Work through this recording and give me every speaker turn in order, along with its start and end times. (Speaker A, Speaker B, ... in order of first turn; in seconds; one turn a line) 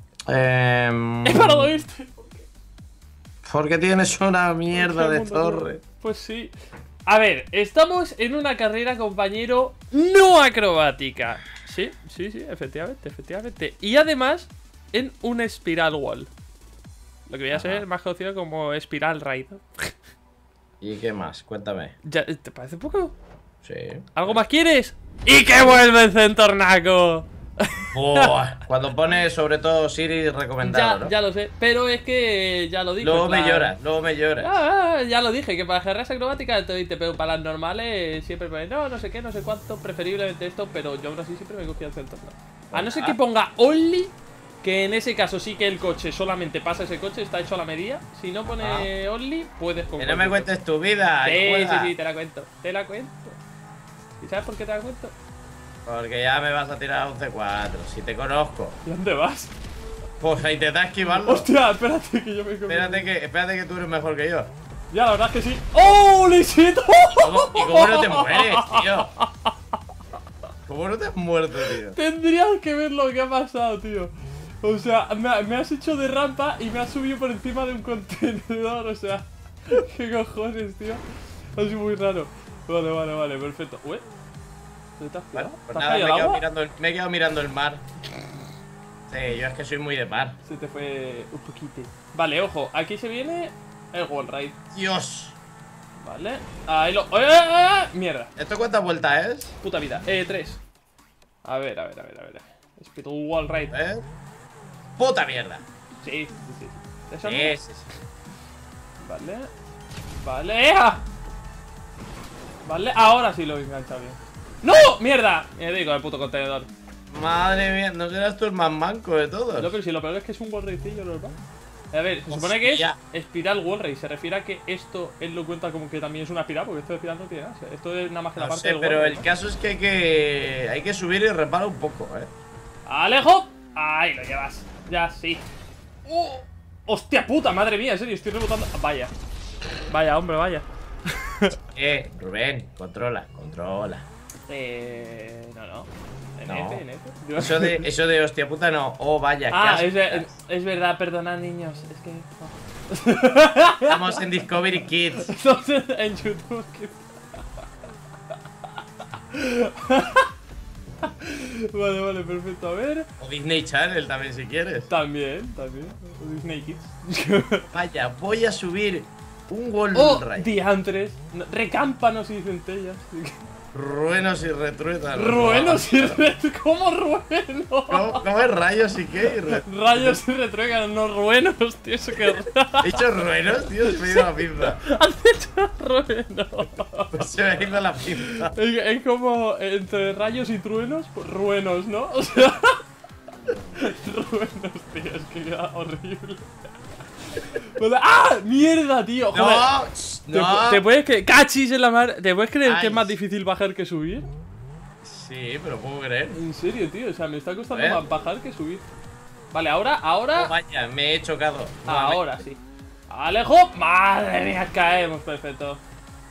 Speaker A: 0.3-1.7
Speaker B: 1.2-2.4
Speaker A: 3.4-5.8
Speaker B: 4.7-6.5
Speaker B: 7.1-16.3
Speaker B: 17.3-19.9
Speaker A: 17.5-17.8
Speaker A: 20.8-21.9
Speaker B: 22.0-23.1
Speaker A: 23.6-24.4
Speaker B: 24.1-28.3
Speaker A: 27.9-31.1
Speaker B: 30.6-33.7
Speaker A: 33.0-34.6
Speaker B: 34.4-50.5
Speaker A: 42.7-43.1
Speaker A: 48.5-48.9
Speaker A: 50.0-51.9
Speaker B: 51.2-53.4
Speaker B: 54.2-55.1
Speaker A: 55.8-58.8
Speaker B: 58.8-59.5
Speaker A: 60.2-61.5
Speaker B: 61.1-63.1
Speaker A: 62.7-64.5
Speaker B: 64.9-69.5
Speaker A: 67.2-69.1
Speaker A: 70.7-72.0
Speaker B: 71.9-81.0
Speaker B: 81.5-84.0
Speaker B: 85.0-86.4
Speaker A: 85.3-87.8
Speaker A: 89.1-90.4
Speaker B: 90.4-94.6
Speaker A: 94.7-95.4
Speaker B: 96.0-98.3
Speaker A: 98.4-99.5
Speaker B: 99.6-100.6
Speaker B: 101.4-103.7
Speaker A: 103.7-104.0
Speaker A: 105.0-105.6
Speaker B: 106.0-107.6
Speaker A: 107.2-107.9
Speaker B: 109.0-109.5
Speaker B: 110.2-111.0
Speaker B: 112.6-116.7
Speaker A: 117.1-119.7
Speaker B: 119.5-121.3
Speaker B: 121.9-129.2
Speaker A: 122.3-123.0
Speaker A: 128.4-132.3
Speaker B: 132.9-135.4
Speaker B: 136.1-139.1
Speaker B: 139.9-141.5
Speaker A: 141.7-144.1
Speaker B: 144.5-147.8
Speaker A: 146.5-146.8
Speaker A: 147.4-150.3
Speaker B: 149.5-154.2
Speaker A: 153.9-155.3
Speaker B: 155.2-157.0
Speaker B: 159.3-160.3
Speaker B: 161.0-163.1
Speaker A: 163.2-164.9
Speaker B: 164.9-167.7
Speaker A: 167.7-170.5
Speaker B: 169.9-173.4
Speaker A: 173.7-176.2
Speaker B: 175.1-178.2
Speaker A: 177.9-180.2
Speaker B: 179.5-183.0
Speaker A: 182.8-184.8
Speaker B: 183.8-187.3
Speaker A: 187.1-188.5
Speaker B: 188.2-192.8
Speaker B: 193.8-196.4
Speaker B: 197.3-199.7
Speaker A: 199.3-200.8
Speaker B: 200.3-204.3
Speaker A: 202.6-203.2
Speaker A: 205.0-206.4
Speaker B: 206.3-208.9
Speaker A: 207.7-208.0
Speaker B: 209.5-210.5
Speaker A: 210.3-212.4
Speaker B: 211.8-215.8